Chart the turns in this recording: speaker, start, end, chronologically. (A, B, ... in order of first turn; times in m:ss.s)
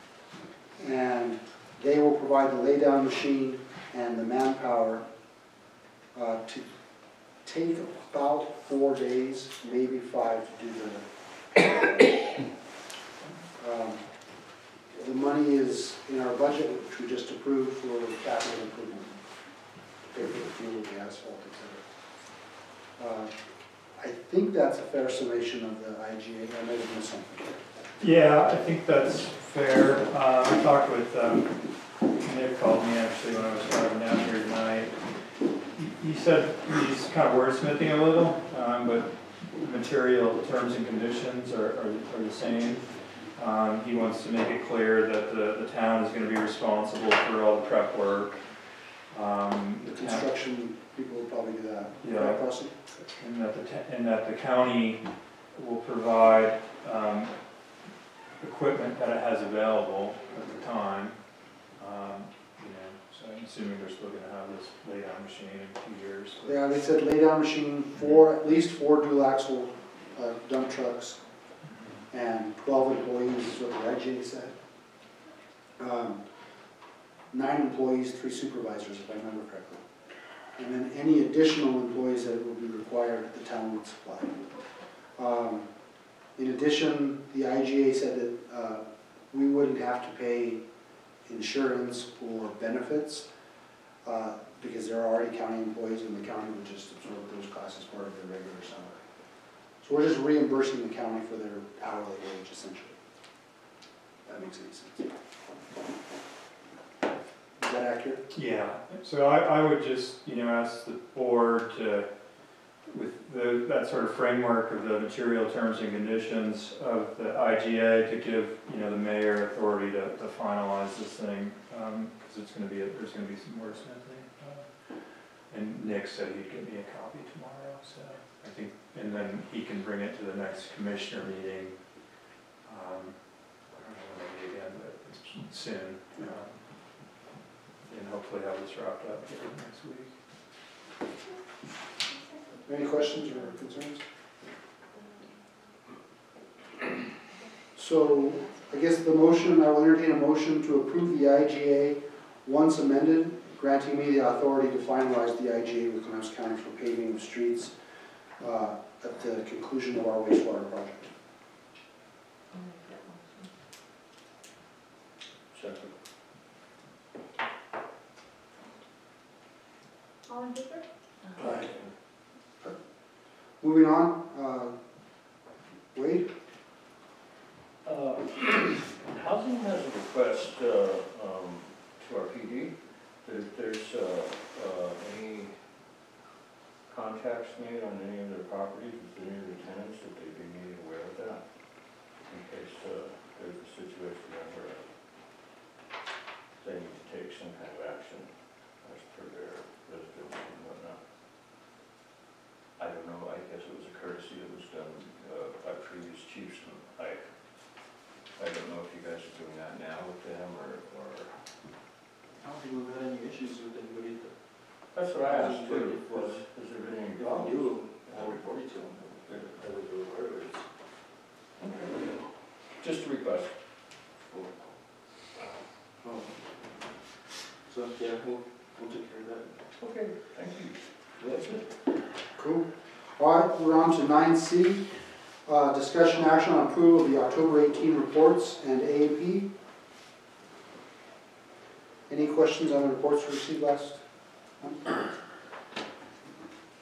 0:00.8-0:05.0 A
0:06.1-0:06.6 A
0:07.4-0:11.0 A
0:11.6-0:12.1 A
0:13.6-0:14.0 A
0:14.9-0:19.1 A
0:20.1-0:21.8 A
0:23.0-0:23.3 A
0:24.0-0:27.6 A
0:28.0-0:31.6 B
0:32.1-0:35.0 B
0:35.8-0:48.4 B
0:49.1-0:50.3 B
0:49.8-0:53.0 A
0:52.0-0:52.4 B
0:53.0-0:57.3 B
0:58.4-1:01.2 B
1:01.7-1:06.6 B
1:06.4-1:11.2 A
1:11.6-1:12.0 B
1:12.1-1:14.5 A
1:15.8-1:16.2 A
1:17.3-1:19.8 A
1:20.6-1:24.4 A
1:25.2-1:25.7 A
1:26.4-1:30.6 A
1:31.3-1:33.3 A
1:34.0-1:39.0 A
1:39.8-1:42.9 A
1:44.2-1:45.1 A
1:47.6-1:48.2 A
1:48.3-1:52.1 B
1:52.9-2:04.7 B
2:05.5-2:11.8 B
2:12.6-2:16.6 B
2:17.9-2:20.1 B
2:22.1-2:23.5 C
2:22.6-2:24.0 A
2:24.9-2:25.4 C
2:27.3-2:28.8 C
2:27.8-2:37.7 A
2:38.4-2:41.1 A
2:45.5-2:45.9 D
2:50.2-2:50.8 C
2:51.4-2:51.7 A
2:53.6-2:54.7 A
2:55.9-2:56.3 A
2:57.8-3:05.6 D
3:06.9-3:14.9 D
3:16.6-3:21.0 D
3:22.8-3:31.3 D
3:32.5-3:34.3 E
3:34.9-3:40.6 D
3:35.2-3:36.5 E
3:37.2-3:39.5 E
3:41.6-3:42.2 D
3:42.7-3:44.5 D
3:47.7-3:49.5 E
3:49.8-3:51.6 D
3:52.4-3:52.6 A
3:53.2-3:54.8 A
3:55.4-3:59.5 A
4:02.1-4:04.0 A
4:04.6-4:05.0 A